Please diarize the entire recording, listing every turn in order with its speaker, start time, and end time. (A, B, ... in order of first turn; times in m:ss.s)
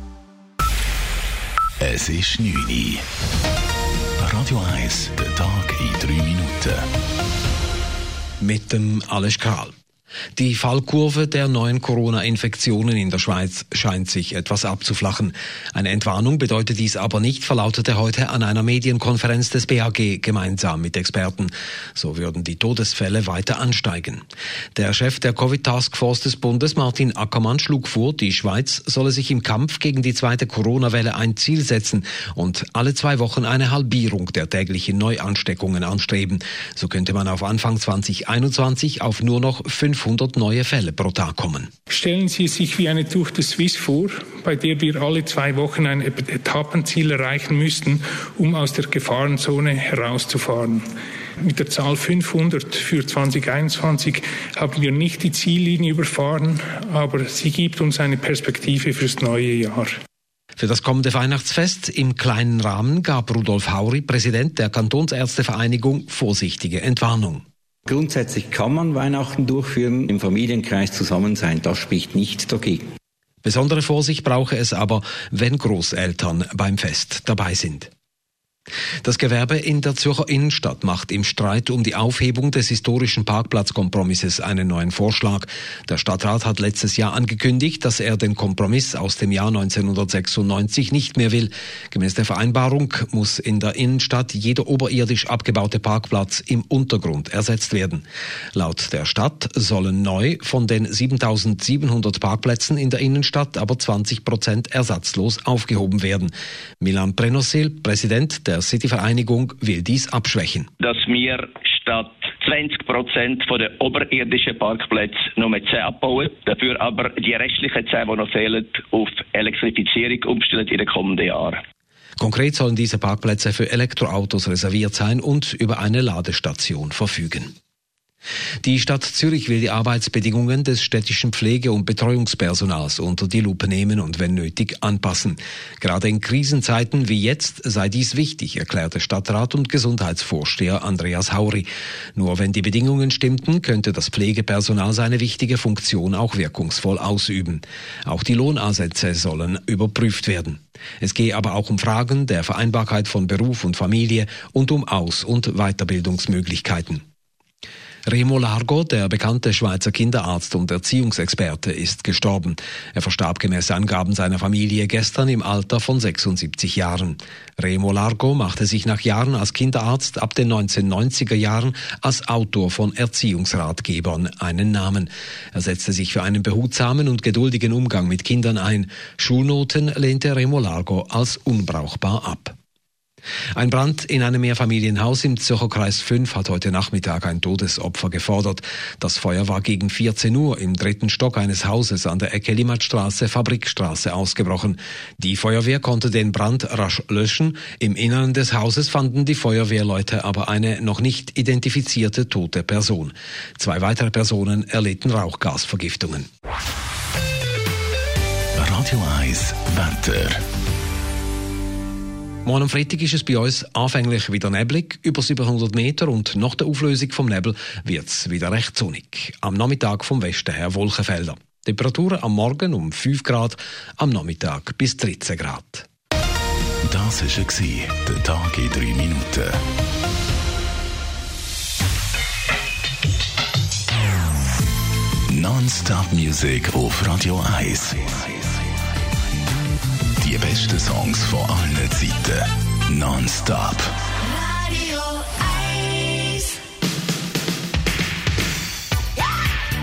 0:01.8-0:03.0 A
0:04.2-0:06.9 A
0:08.4-0:09.7 B
0:10.4-0:24.2 B
0:24.8-0:41.7 B
0:41.9-0:50.8 C
0:51.4-0:59.9 C
1:00.6-1:07.4 B
1:07.9-1:12.8 D
1:13.4-1:17.9 B
1:19.0-1:50.7 B
1:50.8-2:01.6 E
2:02.2-2:07.5 B
2:08.6-2:37.0 B
2:38.1-3:02.6 B
3:03.6-3:26.3 B
3:28.6-3:30.4 A
3:32.4-3:45.9 B
3:46.8-3:49.6 A
3:55.3-3:58.2 A
4:00.2-4:03.9 A